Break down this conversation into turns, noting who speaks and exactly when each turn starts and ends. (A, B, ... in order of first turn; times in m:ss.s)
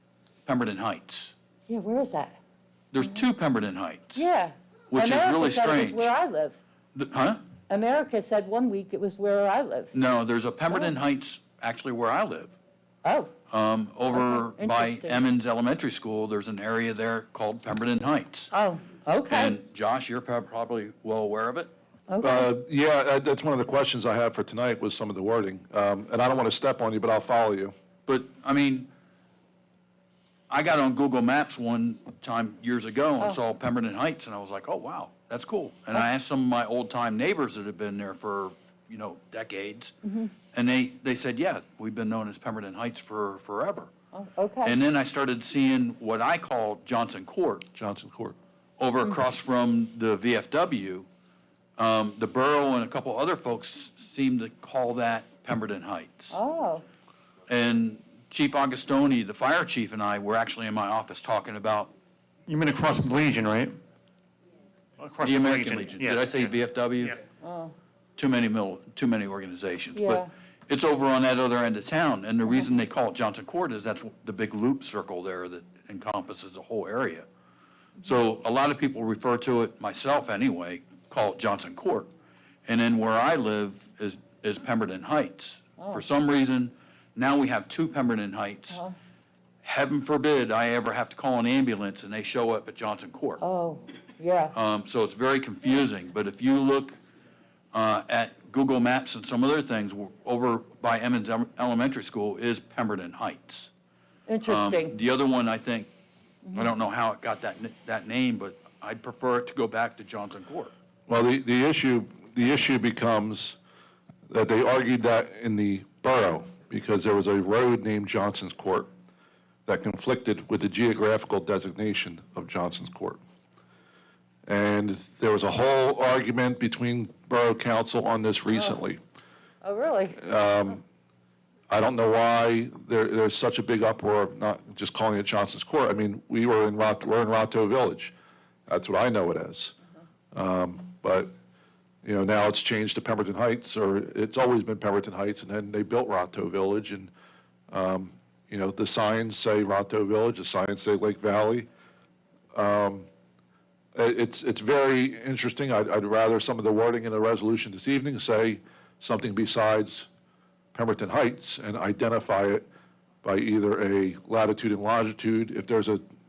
0:00.4-0:01.3 A
0:01.7-0:02.4 B
0:02.9-0:04.2 A
0:04.1-0:06.6 B
0:04.9-0:06.1 A
0:06.9-0:07.4 A
0:07.7-0:09.9 B
0:09.9-0:12.5 A
0:13.0-0:13.3 B
0:13.5-0:18.5 A
0:14.1-0:15.2 B
0:18.5-0:19.6 B
0:19.3-0:21.7 A
0:22.1-0:22.5 B
0:22.2-0:27.7 C
0:28.1-0:28.9 A
0:30.5-0:39.9 A
0:40.0-0:40.3 B
0:40.5-0:43.9 A
0:44.1-0:44.7 B
0:44.6-0:47.6 A
0:47.7-0:48.4 C
0:48.8-0:51.1 A
0:51.8-0:56.4 A
0:56.3-0:56.8 B
0:57.5-1:01.9 A
1:02.5-1:03.8 D
1:05.0-1:06.4 D
1:05.2-1:07.2 A
1:07.4-1:07.7 B
1:08.2-1:17.2 A
1:10.0-1:10.3 B
1:18.0-1:22.1 A
1:22.6-1:28.8 A
1:25.8-1:26.0 B
1:29.6-1:33.4 A
1:33.4-1:34.5 B
1:34.5-1:36.9 A
1:37.7-1:43.7 A
1:44.3-1:44.9 B
1:44.4-1:45.9 A
1:46.5-1:50.7 A
1:51.1-1:53.6 C
1:54.3-1:58.9 C
1:59.6-2:03.2 C
2:04.5-2:09.0 C
2:08.5-2:08.8 B
2:09.6-2:10.2 B
2:10.2-2:10.8 C
2:11.7-2:18.1 C
2:18.7-2:19.8 C
2:20.3-2:21.3 C
2:22.0-2:27.1 C
2:27.7-2:31.7 C
2:32.5-2:33.1 C
2:33.9-2:40.1 C
2:40.7-2:42.6 C
2:43.2-2:46.0 C